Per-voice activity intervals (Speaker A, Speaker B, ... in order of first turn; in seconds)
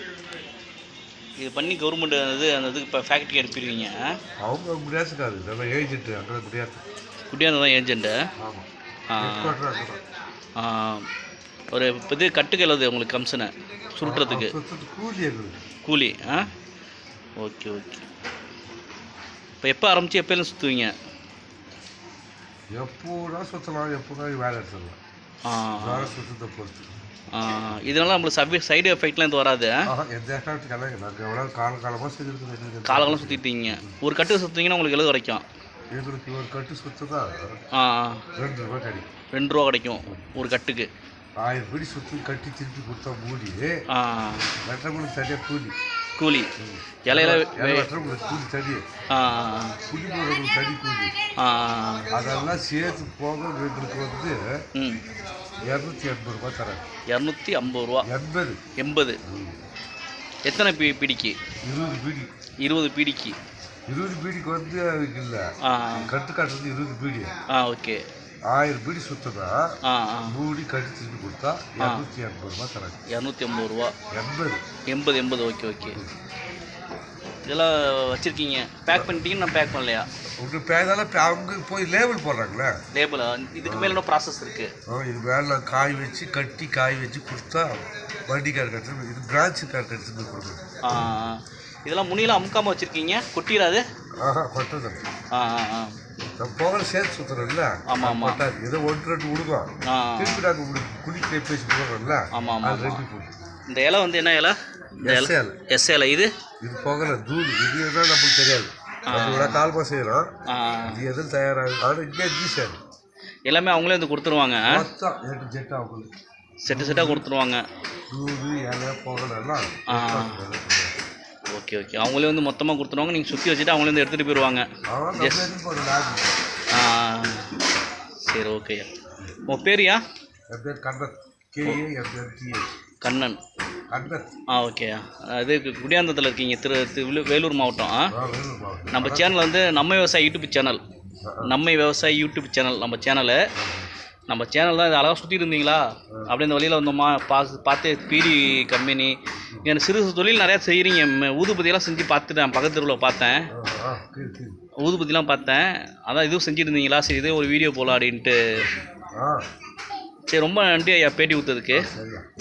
Speaker A: 1.4-4.1, 7.3-8.2, 9.1-9.6, 10.6-11.1, 11.7-14.5, 15.8-16.5, 17.4-18.1, 19.6-20.9, 25.4-26.1, 27.3-29.8, 32.9-35.4, 37.7-38.2, 39.3-40.9, 43.9-44.5, 46.1-46.5, 47.1-47.9, 49.1-49.8, 51.4-52.1, 57.1-58.1, 58.8-59.2, 60.5-61.3, 62.6-63.4, 65.6-66.1, 67.5-68.0, 69.8-70.4, 71.8-72.0, 73.1-73.9, 74.9-76.0, 77.5-80.1, 82.9-84.7, 90.8-93.8, 95.3-95.9, 97.9-98.4, 99.9-100.4, 102.3-103.0, 103.7-106.3, 109.1-109.6, 110.5-111.0, 113.5-114.8, 116.6-117.6, 119.9-120.4, 121.5-124.7, 125.2-125.5, 126.7-127.5, 128.2-128.9, 129.5-130.0, 133.0-133.4, 134.5-138.1, 138.9-140.8, 141.4-143.4, 144.3-153.5, 154.8-158.7, 160.3-161.9
Speaker B: 4.4-6.8, 8.4-8.7, 9.2-10.0, 14.0-15.6, 22.7-25.0, 25.8-26.9, 29.9-34.0, 35.9-37.6, 38.3-39.1, 40.0-40.3, 41.4-43.7, 44.6-45.7, 46.6-48.8, 49.9-51.1, 52.1-54.5, 55.6-56.8, 58.0-58.6, 59.2-59.6, 61.6-62.3, 63.9-67.3, 68.5-69.8, 70.3-73.0, 74.1-74.6, 75.8-76.1, 80.4-82.8, 83.6-84.0, 84.9-90.6, 94.2-95.0, 96.4-103.5, 105.0-105.5, 106.6-110.3, 110.8-112.8, 114.7-116.1, 116.7-117.2, 118.1-120.9, 124.9-126.3, 130.5-132.7, 133.9-134.3, 138.1-139.4, 141.2-141.5, 143.6-143.9, 153.5-154.6, 158.6-159.5, 161.7-162.2